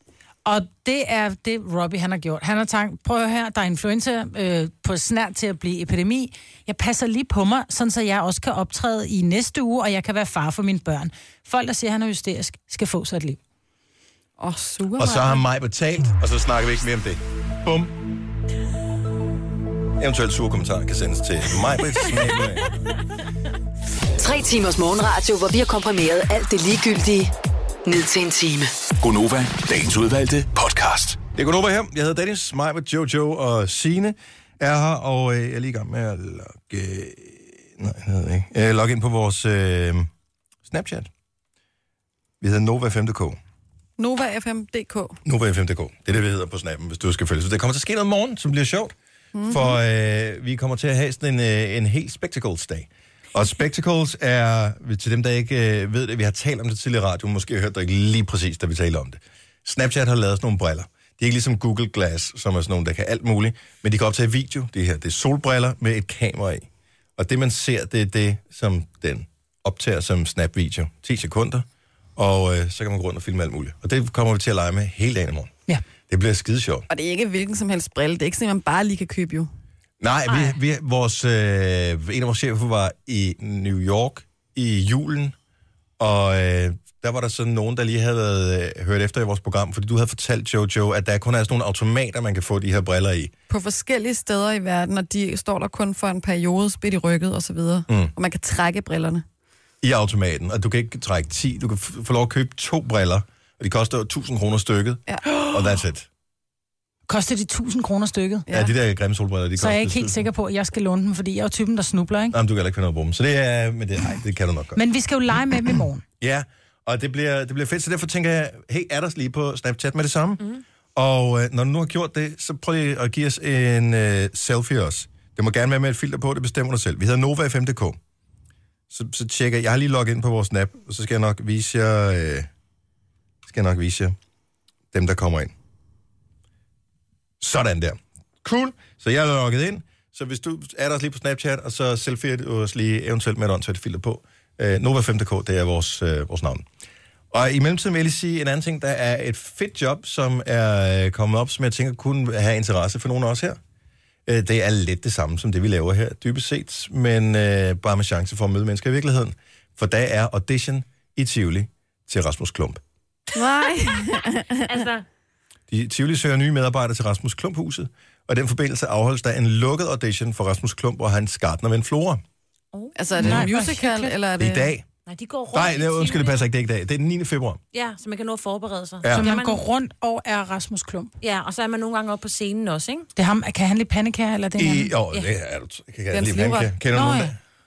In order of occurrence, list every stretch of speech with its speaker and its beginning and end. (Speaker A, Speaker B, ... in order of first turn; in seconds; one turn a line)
Speaker A: 0.5-13.4
Speaker B: 14.4-15.4
Speaker C: 15.0-18.0
Speaker C: 20.0-22.7
Speaker D: 24.2-27.3
Speaker D: 27.9-28.7
Speaker E: 29.0-31.2
Speaker C: 31.4-40.1
Speaker C: 40.6-41.1
Speaker C: 42.4-43.4
Speaker B: 44.0-45.2
Speaker C: 45.2-49.0
Speaker B: 49.4-49.8
Speaker C: 49.5-71.7
Speaker C: 72.2-75.5
Speaker C: 76.1-76.9
Speaker B: 76.9-79.5
Speaker C: 80.0-85.3
Speaker F: 80.3-80.6
Speaker C: 86.0-93.3
Speaker B: 93.5-99.2
Speaker C: 99.8-106.1
Speaker B: 105.1-105.6
Speaker A: 107.1-108.5
Speaker B: 108.5-108.7
Speaker C: 108.5-110.2
Speaker A: 109.6-112.4
Speaker C: 112.3-114.8
Speaker A: 114.8-116.0
Speaker C: 116.2-120.4
Speaker C: 121.0-128.0
Speaker C: 128.9-132.5
Speaker C: 133.4-134.2
Speaker C: 134.9-135.5
Speaker C: 137.4-146.7
Speaker C: 147.3-153.6
Speaker C: 154.3-162.8
Speaker B: 163.3-164.7
Speaker F: 164.6-165.1
Speaker C: 165.7-172.2
Speaker F: 172.7-173.5
Speaker B: 173.0-174.7
Speaker A: 173.2-174.2
Speaker C: 174.4-174.9
Speaker F: 175.1-176.4
Speaker C: 175.5-177.6
Speaker F: 177.7-179.6
Speaker C: 179.0-179.3
Speaker A: 179.2-181.1
Speaker F: 181.2-183.1
Speaker A: 183.2-184.9
Speaker C: 184.6-187.4
Speaker B: 186.1-186.7
Speaker A: 186.9-187.3